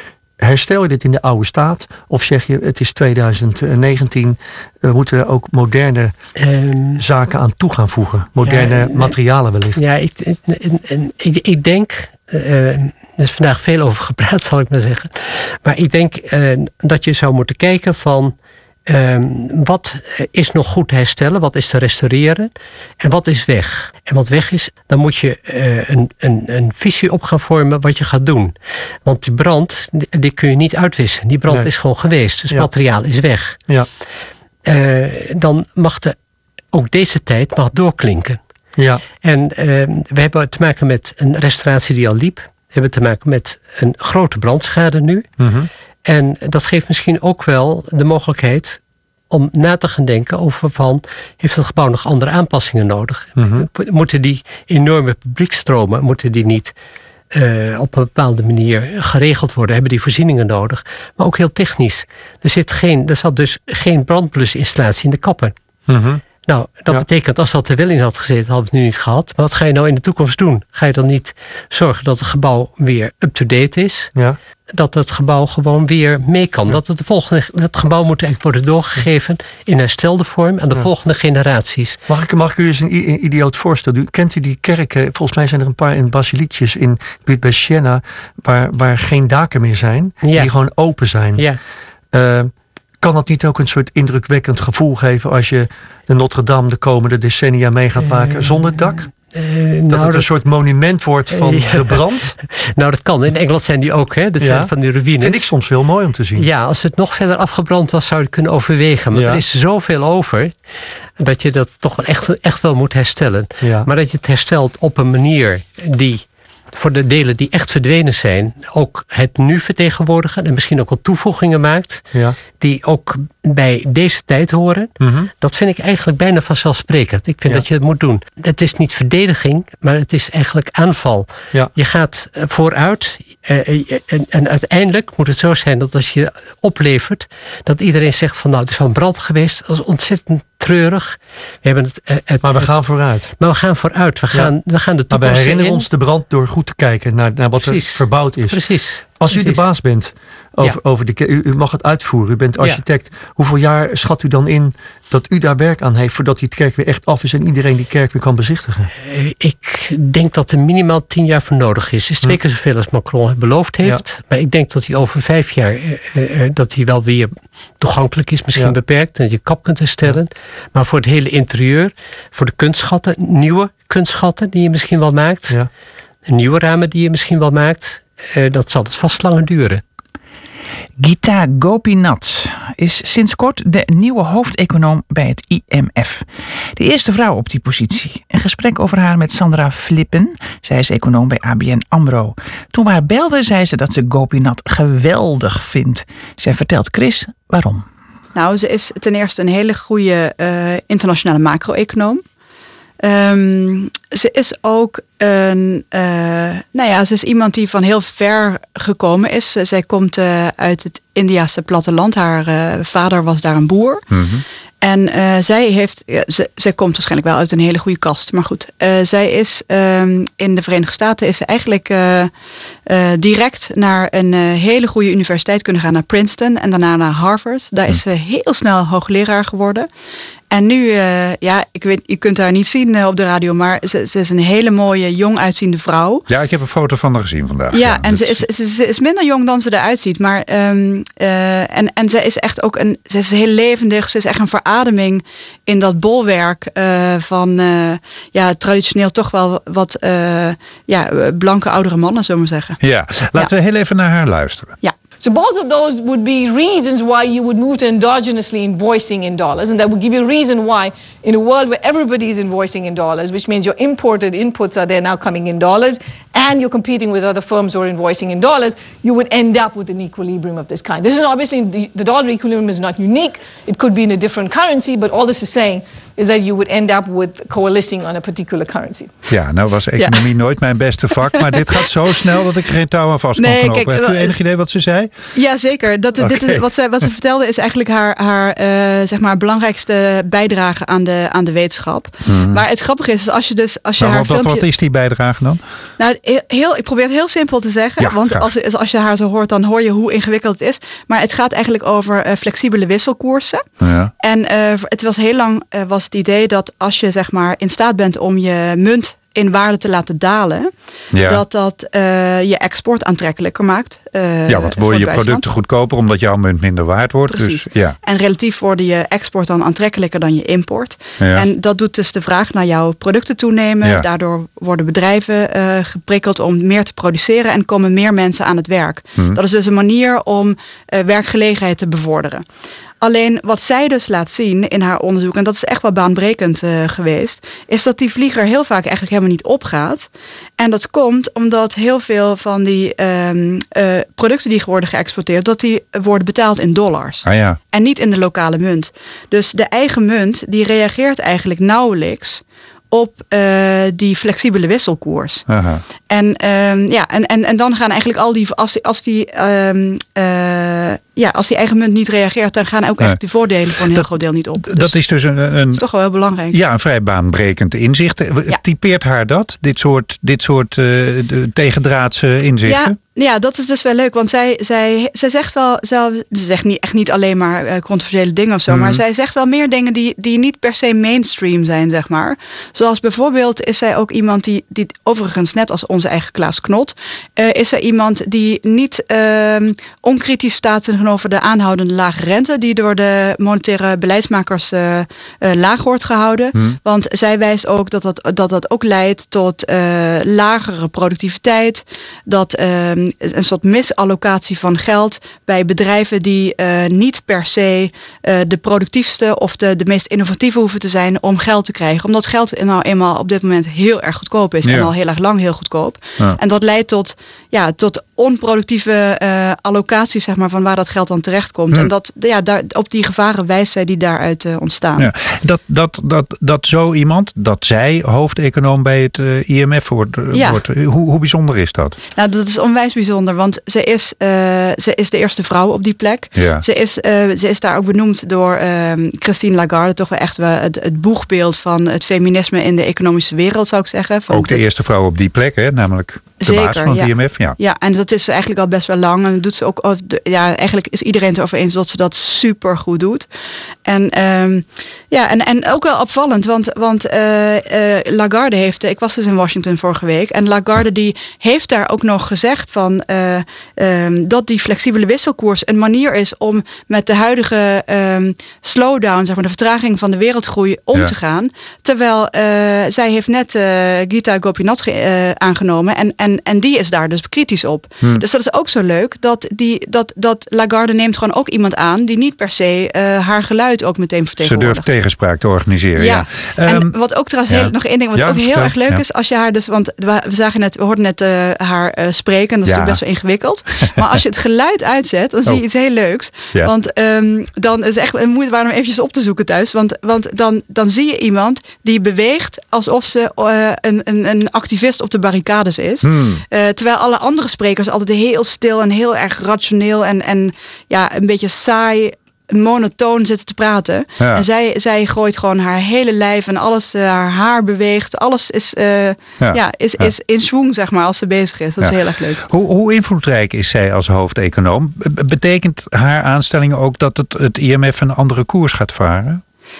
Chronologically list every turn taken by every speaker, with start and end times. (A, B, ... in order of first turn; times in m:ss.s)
0:00.4-0:06.1 A
0:06.4-0:07.0 B
0:07.0-0:09.8 A
0:08.4-0:09.2 B
0:09.8-0:18.3 B
0:18.9-0:28.5 B
0:29.1-0:33.6 B
0:34.7-0:36.2 B
0:36.7-0:38.4 B
0:38.8-0:39.0 A
0:39.2-0:45.3 B
0:45.4-0:45.7 A
0:46.1-0:48.8 B
0:49.3-0:56.7 B
0:53.4-0:53.7 A
0:57.3-1:05.5 B
1:05.9-1:06.2 A
1:06.5-1:14.1 B
1:14.7-1:22.0 B
1:22.1-1:31.5 A
1:30.2-1:31.6 B
1:32.1-1:39.1 A
1:38.0-1:40.3 B
1:39.9-1:42.3 A
1:41.3-1:45.5 B
1:44.4-1:46.5 A
1:46.4-1:50.5 B
1:49.1-1:49.4 A
1:51.2-2:25.9 B
1:53.6-1:53.9 A
2:05.0-2:05.3 A
2:22.4-2:23.3 A
2:24.3-2:24.6 A
2:25.1-2:38.9 A
2:27.6-2:29.6 B
2:32.6-2:32.8 B
2:39.0-2:55.6 B
2:56.3-2:59.8 B
3:01.0-3:06.2 C
3:06.8-3:17.9 C
3:18.4-3:22.2 D
3:23.0-3:34.1 D
3:34.1-3:34.4 E
3:34.8-3:42.3 D
3:42.9-3:49.9 D
3:50.5-3:56.3 D
3:56.3-3:58.5 E
3:57.7-4:12.8 D
4:12.8-4:14.8 E
4:15.2-4:39.1 F
4:39.3-4:45.4 E
4:40.0-4:40.3 D
4:41.4-4:41.9 D
4:43.4-4:44.4 D
4:45.3-4:54.6 D
4:46.2-4:47.1 E
4:52.2-4:52.6 E
4:54.0-4:55.6 E
4:56.0-5:03.6 D
4:58.0-4:58.5 E
5:03.8-5:04.1 E
5:04.2-5:15.4 D
5:11.1-5:11.4 E
5:14.5-5:18.0 E
5:17.3-5:32.4 D
5:21.2-5:21.5 E
5:33.0-5:55.4 D
5:47.2-5:47.6 E
5:55.5-5:55.8 E
5:56.1-6:05.0 D
6:03.0-6:05.8 E
6:05.7-6:06.6 D
6:06.5-6:13.0 E
6:12.6-7:05.1 D
6:18.7-6:19.0 E
6:54.6-6:54.9 E
7:05.0-7:12.0 E
7:10.3-7:10.6 D
7:12.2-7:24.6 D
7:16.4-7:16.6 E
7:24.3-7:27.6 E
7:26.4-7:33.3 D
7:33.9-8:04.9 D
8:04.4-8:07.0 E
8:06.0-8:42.4 D
8:07.5-8:09.0 E
8:12.6-8:13.0 E
8:26.0-8:26.4 E
8:34.2-8:34.4 E
8:39.4-8:40.1 E
8:41.8-8:49.4 E